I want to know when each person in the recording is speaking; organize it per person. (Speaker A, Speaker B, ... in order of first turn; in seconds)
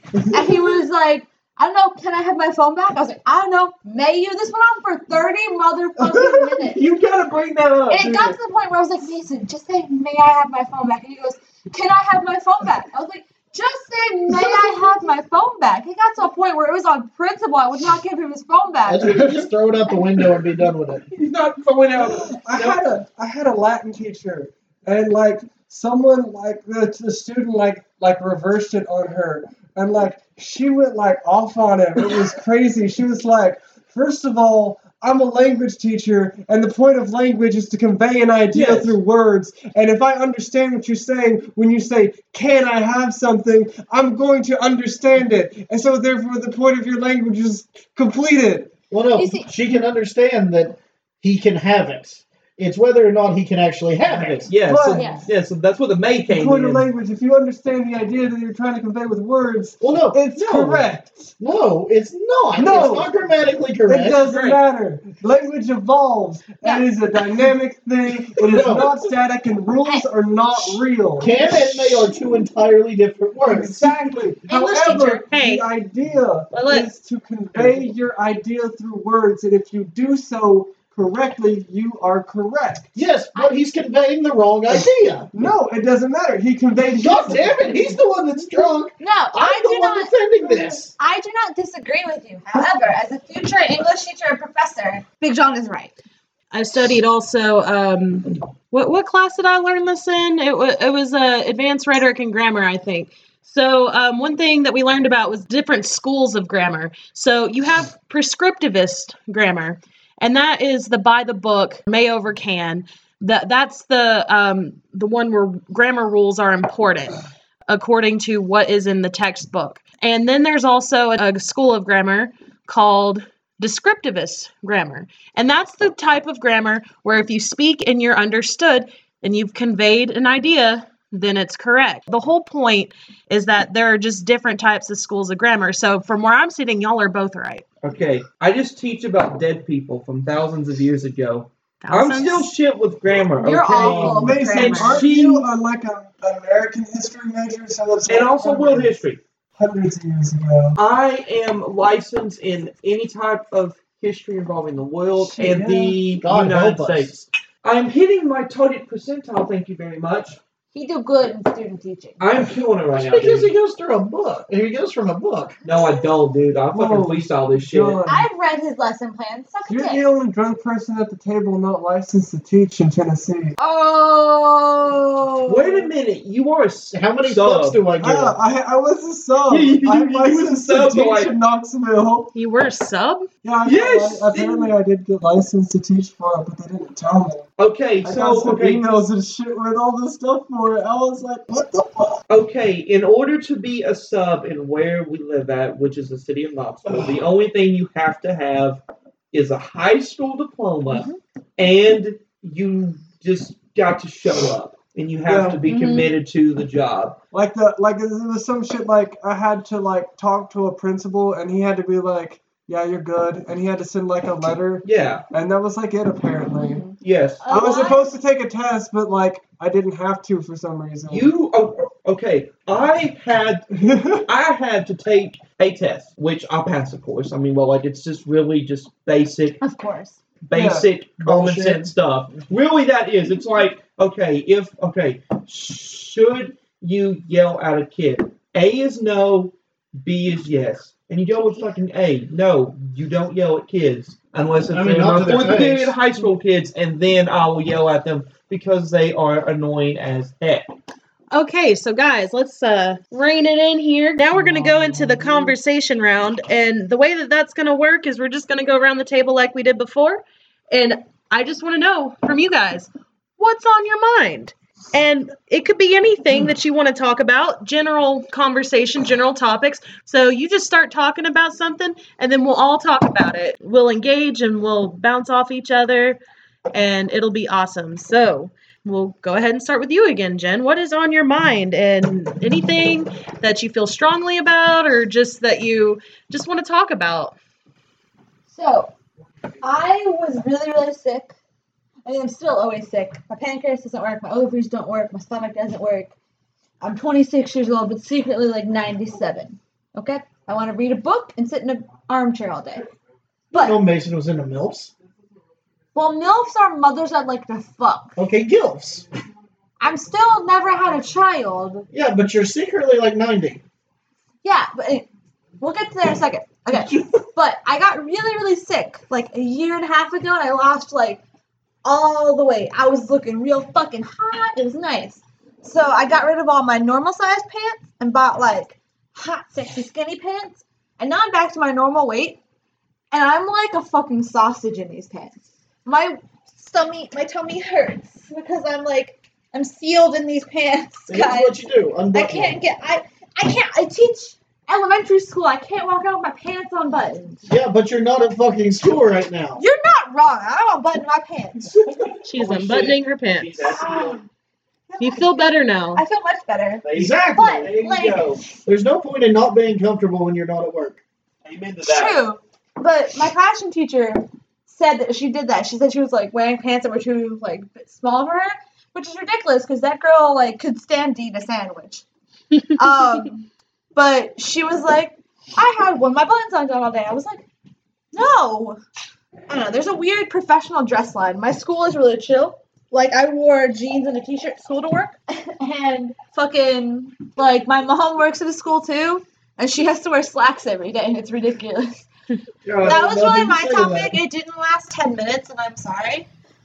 Speaker A: 0.3-6.8, 7.9-19.4, 49.1-49.5, 54.9-55.3, 66.6-66.9, 69.8-70.1, 89.0-90.1, 91.0-95.9, 143.4-145.1, 160.7-162.2, 165.6-166.1, 168.1-170.1, 173.6-175.9, 200.9-201.2, 205.7-206.1, 216.6-218.1, 229.6-230.2, 288.5-288.9, 289.6-291.3, 292.0-296.1, 296.8-302.9, 303.5-303.8, 305.9-308.1, 309.8-311.9, 314.4-315.1, 315.6-321.2, 321.8-332.4, 333.1-341.6, 342.1-347.4, 349.6-351.7, 353.7-354.2, 354.9-358.3, 361.8-372.0, 372.7-377.4, 378.1-378.8, 379.5-392.1, 392.8-396.3
Speaker B: 6.6-8.4, 21.1-22.8, 38.5-39.0, 54.0-56.9, 64.2-64.6, 137.8-145.5, 148.1-149.2, 150.8-160.4, 162.2-163.5, 165.6-168.0, 175.5-177.8, 179.5-181.3, 183.6-184.7, 187.6-188.8, 192.3-198.8, 199.3-207.2, 214.8-215.2, 217.0-217.8, 221.1-223.7, 224.2-229.6, 230.4-250.7, 351.7-354.2, 356.8-358.4, 361.4-362.2, 392.6-393.0
Speaker C: 18.8-21.0, 48.9-54.5, 59.8-64.3, 68.4-69.0, 71.2-73.9, 82.9-85.3, 87.0-90.9, 143.7-144.4, 156.2-157.2, 162.9-165.6, 176.9-178.4, 231.2-231.9, 244.7-245.9, 303.5-304.9, 308.2-309.0, 311.9-313.6, 341.1-342.6, 347.5-349.6, 356.9-358.1, 358.6-361.0, 392.7-394.2
Speaker D: 21.9-48.7, 54.6-55.3, 56.3-61.3, 62.5-63.2, 63.9-72.1, 73.4-82.9, 85.3-88.0, 90.4-90.7, 143.8-148.9, 149.6-150.8, 155.2-156.0, 166.7-168.3, 169.7-173.6, 178.0-182.3, 183.4-187.5, 188.0-192.2, 205.2-205.7, 207.3-216.8, 217.5-221.3, 223.8-224.2, 230.5-230.9, 254.3-255.5
Speaker E: 74.5-75.7, 76.5-76.9, 96.5-137.6, 141.8-142.5, 182.3-183.3, 251.3-276.2, 276.7-287.4, 352.2-353.7, 355.0-356.0